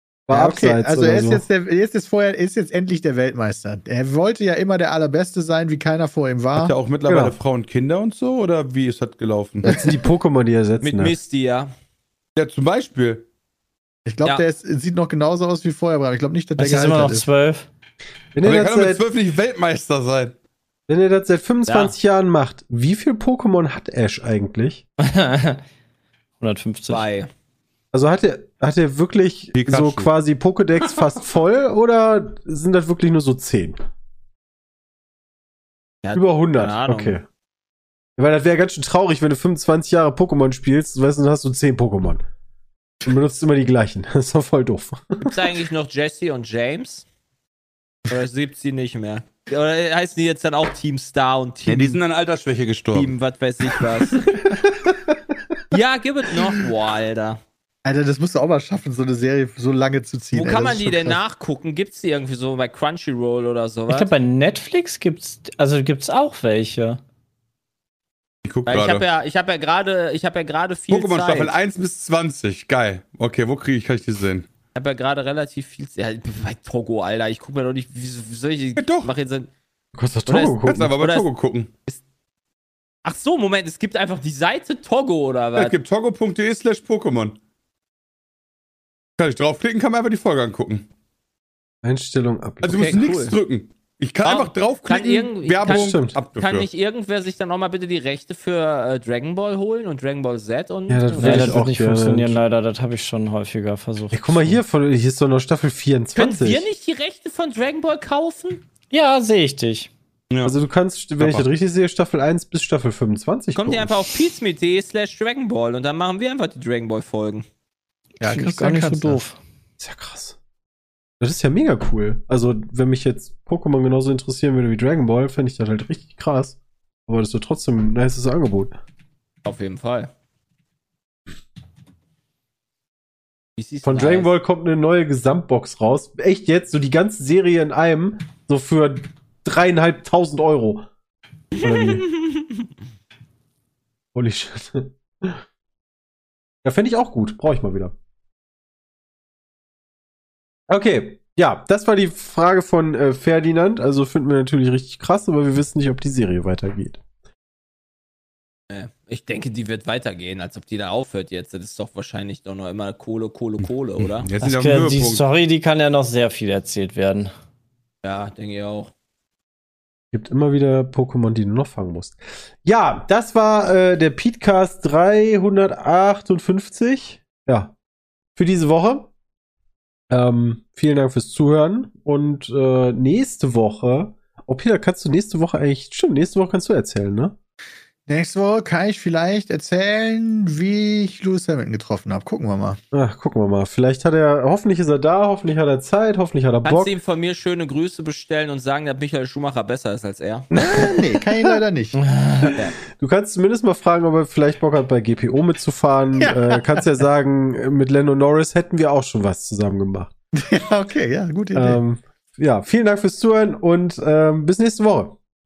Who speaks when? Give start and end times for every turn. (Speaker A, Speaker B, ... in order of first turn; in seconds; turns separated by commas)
Speaker A: 0.3-1.4, Speaker B: 0.3-6.7, Speaker C: 6.5-9.8, Speaker A: 7.1-7.4, Speaker A: 9.6-11.2, Speaker D: 10.8-11.7, Speaker C: 12.3-13.2, Speaker B: 14.1-17.2, Speaker E: 16.6-17.7, Speaker A: 18.3-19.0, Speaker C: 18.4-20.3, Speaker A: 20.9-24.8, Speaker D: 21.7-21.9, Speaker E: 25.0-25.6, Speaker E: 26.4-27.0, Speaker D: 26.9-27.3, Speaker A: 27.9-33.8, Speaker C: 29.5-30.1, Speaker D: 36.0-37.2, Speaker A: 36.1-37.2, Speaker A: 38.2-42.2, Speaker A: 43.0-45.4, Speaker D: 45.2-47.0, Speaker D: 48.1-52.0, Speaker C: 51.7-53.1, Speaker D: 52.9-54.6, Speaker A: 54.9-55.6, Speaker D: 55.7-57.4, Speaker B: 57.8-61.2, Speaker D: 60.3-64.1, Speaker E: 63.9-67.0, Speaker C: 68.4-69.0, Speaker D: 68.7-71.5, Speaker C: 70.9-74.5, Speaker D: 74.7-79.5, Speaker C: 78.8-79.1, Speaker A: 79.9-80.9, Speaker D: 80.3-81.3, Speaker C: 80.7-81.7, Speaker D: 83.0-85.8, Speaker C: 85.5-87.4, Speaker C: 89.2-90.9, Speaker A: 91.8-93.0, Speaker C: 92.6-96.7, Speaker D: 92.7-93.3, Speaker D: 94.2-101.6, Speaker A: 95.6-96.2, Speaker A: 100.9-102.4, Speaker E: 101.1-104.6, Speaker A: 104.1-106.7, Speaker D: 106.1-108.6, Speaker E: 108.9-109.9, Speaker A: 110.4-114.0, Speaker C: 111.2-111.5, Speaker D: 113.5-117.4, Speaker B: 118.2-119.2, Speaker E: 118.2-119.4, Speaker A: 119.8-120.4, Speaker A: 121.2-128.7, Speaker D: 129.4-130.1, Speaker D: 133.6-134.3, Speaker A: 133.8-140.9, Speaker D: 141.6-142.5, Speaker A: 141.6-142.0, Speaker A: 144.1-145.4, Speaker A: 146.6-147.9, Speaker A: 150.7-157.0, Speaker D: 158.7-164.3, Speaker C: 164.0-165.2, Speaker E: 164.4-167.3, Speaker D: 168.0-168.9, Speaker A: 170.1-177.7, Speaker A: 178.3-179.1, Speaker A: 180.1-187.3, Speaker B: 188.1-192.8, Speaker A: 192.9-196.9, Speaker D: 196.6-200.5, Speaker A: 200.5-201.5, Speaker B: 200.6-202.0, Speaker E: 202.2-202.5, Speaker A: 202.4-210.1, Speaker B: 206.2-206.8, Speaker B: 210.3-211.8, Speaker A: 211.5-215.2